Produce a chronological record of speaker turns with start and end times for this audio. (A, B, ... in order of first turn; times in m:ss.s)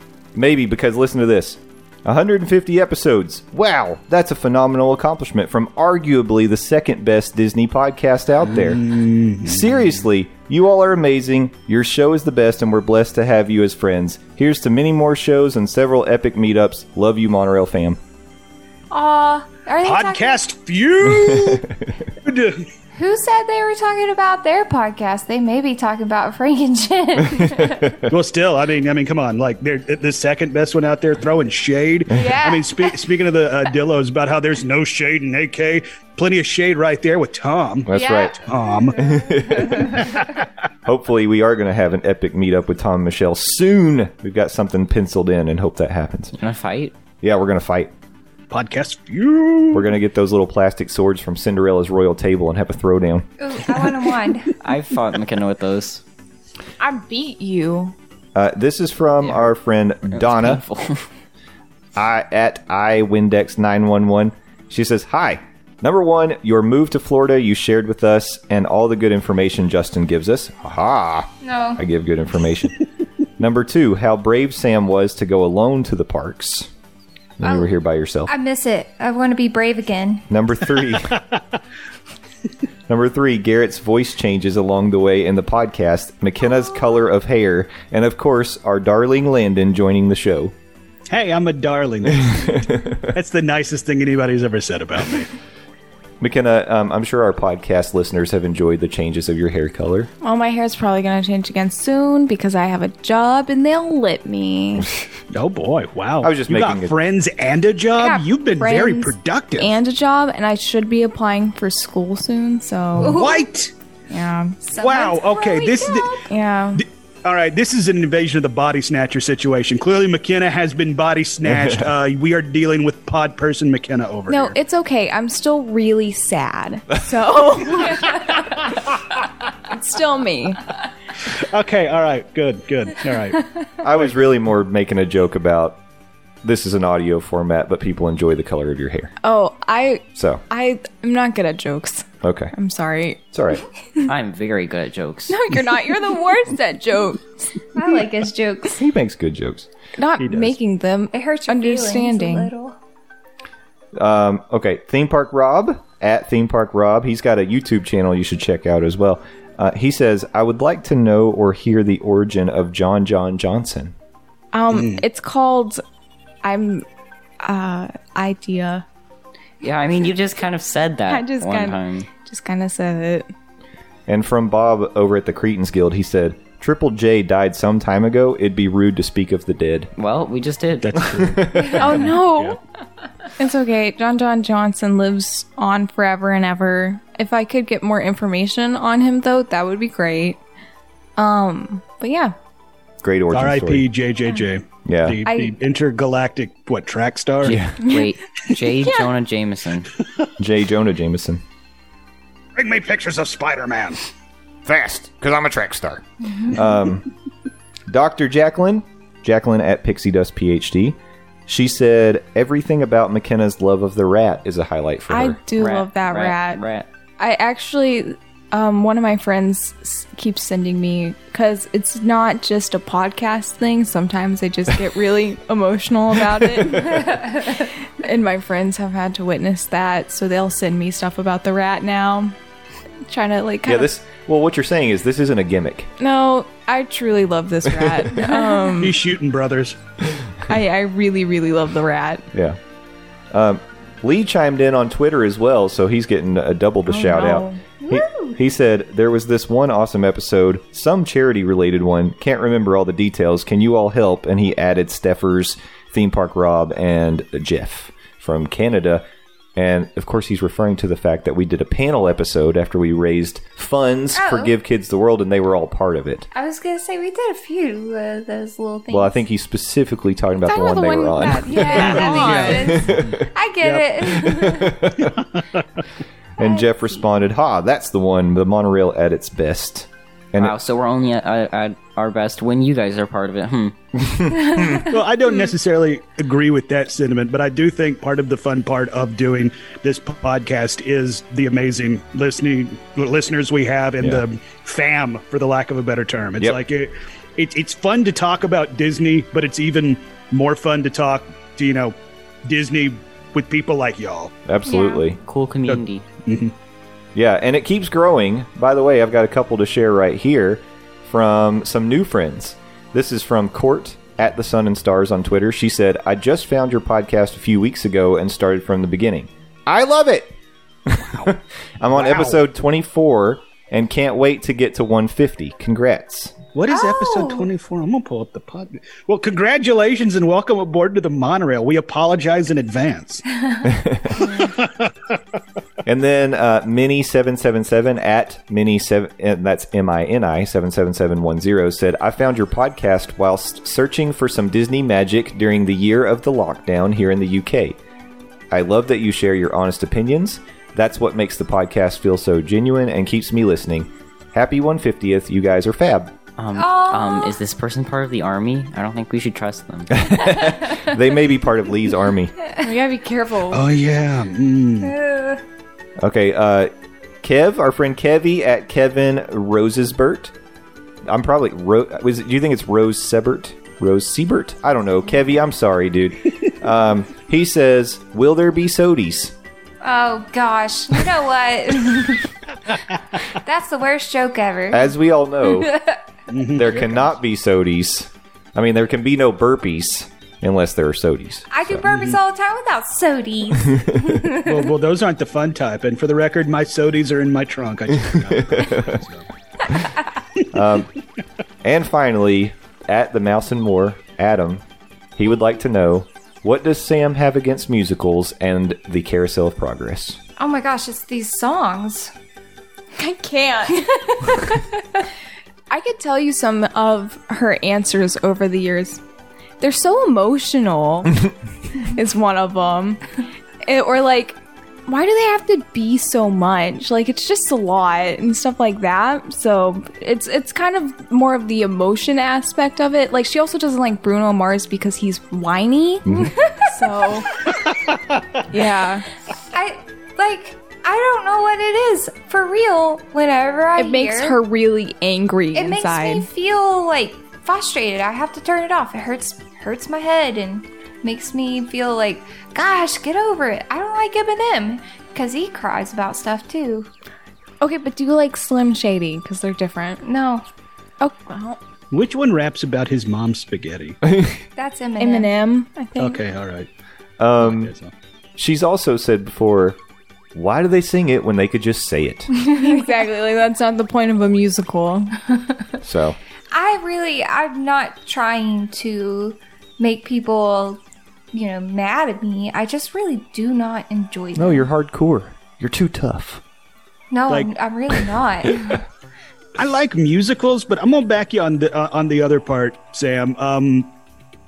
0:00.3-0:08.8 A
0:08.4-0:09.9 B
0:09.4-0:18.0 A
0:18.9-0:20.4 C
0:19.8-0:21.7 B
0:21.1-0:21.9 A
0:22.2-0:22.7 B
0:22.9-0:28.0 C
0:27.3-0:28.0 A
0:28.1-0:37.9 B
0:32.1-0:33.0 C
0:37.8-0:38.4 A
0:37.9-0:39.8 C
0:38.4-0:39.1 B
0:39.0-0:40.0 A
0:39.8-0:40.4 B
0:40.8-0:46.3 A
0:46.3-0:47.0 D
0:47.2-0:47.9 A
0:48.5-0:49.9 B
0:49.7-0:53.2 A
0:53.4-0:54.5 C
0:54.6-0:56.0 D
0:56.8-0:57.9 E
0:58.3-1:00.6 A
0:59.2-0:59.5 D
1:00.1-1:01.0 D
1:02.0-1:12.8 A
1:11.4-1:11.8 C
1:13.4-1:16.7 A
1:17.4-1:18.3 A
1:17.4-1:17.7 C
1:18.2-1:20.2 C
1:20.3-1:21.2 A
1:22.9-1:30.5 A
1:31.1-1:35.3 B
1:32.2-1:33.0 A
1:36.2-1:40.1 A
1:40.2-1:44.9 E
1:45.3-1:49.8 B
1:46.2-1:46.9 A
1:48.0-1:53.2 E
1:53.0-1:53.5 C
1:53.0-1:53.7 B
1:54.1-1:54.6 E
1:54.6-1:56.2 C
1:54.7-1:56.2 B
1:56.3-1:56.8 E
1:56.8-2:04.6 B
2:01.4-2:01.9 A
2:04.3-2:08.2 E
2:09.7-2:10.6 E
2:11.3-2:13.5 B
2:13.8-2:15.8 A
2:16.4-2:19.1 A
2:19.2-2:23.2 E
2:20.2-2:20.4 A
2:22.2-2:22.5 A
2:23.3-2:23.6 A
2:24.0-2:25.4 D
2:25.3-2:27.5 E
2:27.7-2:28.8 C
2:28.7-2:29.7 A
2:30.0-2:32.5 E
2:30.2-2:30.5 B
2:31.1-2:32.8 C
2:33.9-2:43.9 A
2:44.5-2:45.8 E
2:44.7-2:45.0 B
2:46.4-2:46.8 E
2:47.4-2:48.8 E
2:49.6-2:52.1 D
2:51.1-2:53.3 E
2:54.1-2:59.9 A
3:00.0-3:01.1 D
3:00.8-3:02.6 B
3:01.0-3:01.9 A
3:01.8-3:02.6 E
3:03.4-3:10.4 E
3:11.2-3:12.3 E
3:13.0-3:13.9 A
3:13.3-3:17.6 B
3:14.8-3:15.2 A
3:15.2-3:15.6 E
3:17.4-3:17.8 A
3:17.4-3:19.9 D
3:17.8-3:18.1 E
3:20.4-3:21.4 A
3:22.5-3:24.0 B
3:24.6-3:27.0 A
3:26.2-3:26.6 C
3:27.9-3:35.4 A
3:35.1-3:36.6 E
3:35.6-3:36.8 D
3:37.2-3:52.3 E
3:47.0-3:47.6 C
3:53.1-3:53.9 E
3:53.6-3:55.9 A
3:56.0-3:59.0 E
3:57.7-3:58.1 A
3:58.1-3:58.8 C
3:58.8-3:59.8 B
4:00.5-4:02.3 E
4:03.3-4:19.0 A
4:06.9-4:07.6 E
4:07.8-4:08.4 C
4:19.6-4:26.3 A
4:24.1-4:24.5 C
4:26.3-4:29.2 C
4:28.9-4:31.9 A
4:30.4-4:32.9 E
4:31.2-4:34.8 C
4:31.8-4:33.0 B
4:32.6-4:33.3 A
4:33.6-4:34.0 B
4:34.2-4:35.1 A
4:35.0-4:35.8 B
4:36.4-4:40.5 A
4:36.4-4:37.0 C
4:40.4-4:43.8 D
4:44.0-4:44.8 A
4:44.3-4:44.9 C
4:44.9-5:04.3 B
4:54.0-4:54.2 A
5:04.4-5:05.2 A
5:04.7-5:05.0 C
5:05.2-5:06.0 D
5:05.7-5:06.5 B
5:07.1-5:20.3 A
5:20.9-5:26.4 A
5:21.0-5:21.3 B
5:21.9-5:22.4 B
5:26.5-5:33.2 B
5:26.7-5:27.5 C
5:33.7-5:34.2 A
5:34.2-5:35.2 B
5:35.8-5:47.8 A
5:48.5-5:56.1 A
5:56.4-6:00.1 D
5:56.5-5:57.4 C
5:59.9-6:02.3 A
6:02.6-6:03.7 E
6:03.5-6:04.9 B
6:04.8-6:05.4 C
6:06.0-6:06.7 A
6:07.2-6:10.3 A
6:11.1-6:19.3 A
6:19.8-6:22.3 C
6:23.3-6:24.9 C
6:24.7-6:25.8 A
6:25.4-6:26.0 C
6:26.3-6:27.1 B
6:26.5-6:32.1 A
6:31.5-6:34.7 C
6:31.9-6:32.2 B
6:34.4-6:39.2 B
6:38.3-6:39.0 A
6:40.5-6:40.9 A
6:41.6-6:44.6 A
6:45.2-6:50.2 A
6:50.4-6:52.1 C
6:53.0-6:53.9 E
6:53.7-6:54.8 C
6:55.7-6:59.0 E
6:59.6-7:03.0 E
7:03.6-7:17.4 E
7:16.0-7:16.3 A
7:17.7-7:18.4 B
7:18.5-7:19.1 E
7:19.5-7:24.4 C
7:23.8-7:26.3 E
7:25.5-7:36.9 C
7:37.6-7:40.0 E
7:40.0-7:40.4 C
7:41.0-7:41.6 E
7:41.9-7:44.0 B
7:44.0-7:44.4 A
7:44.6-7:45.3 C
7:45.0-7:46.2 E
7:46.0-7:46.7 B
7:47.2-7:47.7 A
7:47.4-7:47.9 B
7:48.4-7:49.8 A
7:50.3-7:52.3 A
7:52.3-7:52.9 C
7:52.5-7:55.1 E
7:55.8-7:56.2 A
7:56.5-8:00.8 C
8:01.3-8:04.7 C
8:04.3-8:06.4 A
8:07.1-8:08.8 C
8:07.3-8:07.5 B
8:09.6-8:13.9 B